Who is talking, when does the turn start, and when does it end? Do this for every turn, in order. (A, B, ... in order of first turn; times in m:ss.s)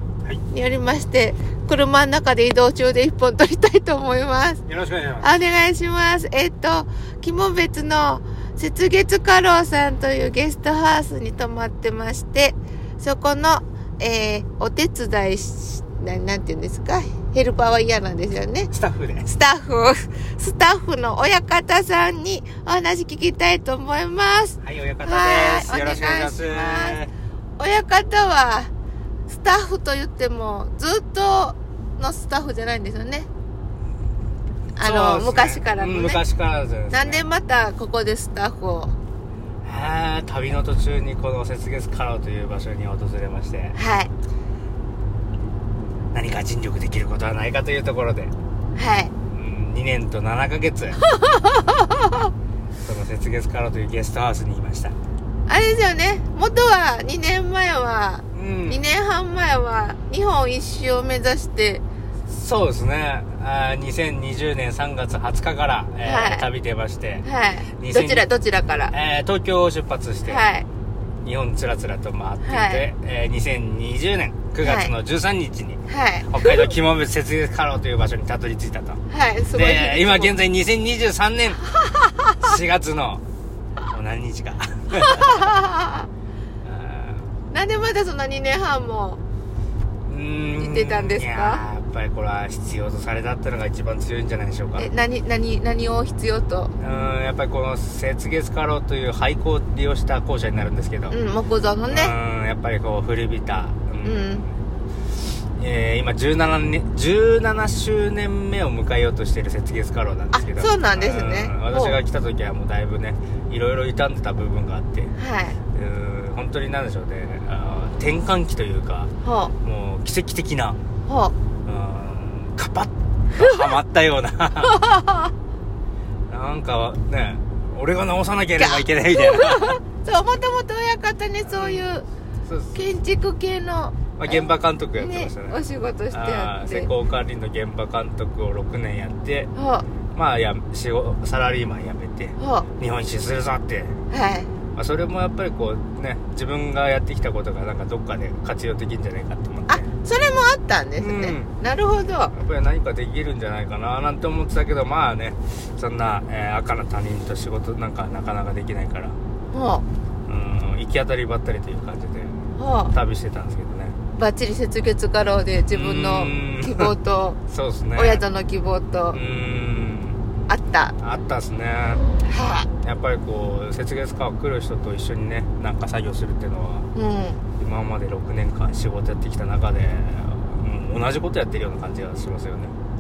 0:00.5-0:04.6 A
0:04.7-0:05.3 B
0:05.2-0:18.7 A
0:18.7-0:19.3 B
0:19.2-0:27.0 A
0:24.6-0:27.1 B
0:27.6-0:28.7 A
0:29.3-0:33.3 A
0:34.8-0:36.2 A
0:34.8-0:37.3 B
0:36.9-0:39.0 A
0:39.6-0:43.8 B
0:43.8-0:44.1 A
0:46.1-0:48.3 B
0:48.8-0:49.1 A
0:49.3-0:51.0 B
0:51.0-0:52.3 A
0:52.8-0:55.0 B
0:55.5-1:01.8 A
0:58.3-0:58.8 B
1:02.3-1:08.3 B
1:06.0-1:06.5 A
1:07.2-1:08.9 A
1:08.9-1:10.4 B
1:10.2-1:10.7 A
1:11.2-1:19.0 B
1:12.4-1:12.8 A
1:14.6-1:14.9 A
1:15.9-1:16.7 A
1:19.1-1:20.4 A
1:19.5-1:21.7 B
1:21.8-1:22.4 A
1:22.4-1:23.2 B
1:23.9-1:25.5 B
1:24.9-1:26.1 A
1:26.6-1:27.3 B
1:27.5-1:29.2 A
1:30.1-1:34.9 B
1:30.6-1:31.6 A
1:34.8-1:36.7 A
1:36.8-1:41.2 B
1:41.1-1:42.1 A
1:41.9-1:44.5 B
1:44.0-1:44.5 A
1:45.6-1:55.1 B
1:50.3-1:52.0 A
1:55.2-1:55.6 A
1:55.7-1:59.1 B
1:59.2-1:59.5 A
1:59.6-2:00.8 B
2:01.1-2:01.4 A
2:01.7-2:04.8 B
2:03.4-2:03.7 A
2:04.6-2:05.3 A
2:06.3-2:09.8 B
2:08.6-2:12.0 A
2:11.5-2:11.9 B
2:12.5-2:12.9 B
2:12.8-2:16.9 A
2:14.2-2:19.5 B
2:19.6-2:19.9 A
2:20.1-2:24.0 B
2:22.4-2:22.7 A
2:24.1-2:24.5 A
2:24.8-2:29.8 B
2:29.7-2:32.3 A
2:31.0-2:31.5 B
2:32.3-2:39.2 B
2:39.5-2:39.8 A
2:40.3-2:42.4 B
2:42.6-2:42.9 A
2:42.9-2:44.0 B
2:44.2-2:47.4 A
2:45.7-2:46.9 B
2:47.5-2:48.2 B
2:48.0-2:49.2 A
2:49.1-2:50.2 B
2:50.5-2:51.0 A
2:51.0-2:52.0 B
2:52.2-2:52.7 A
2:52.8-2:56.9 B
2:57.0-2:57.4 A
2:57.6-3:02.7 B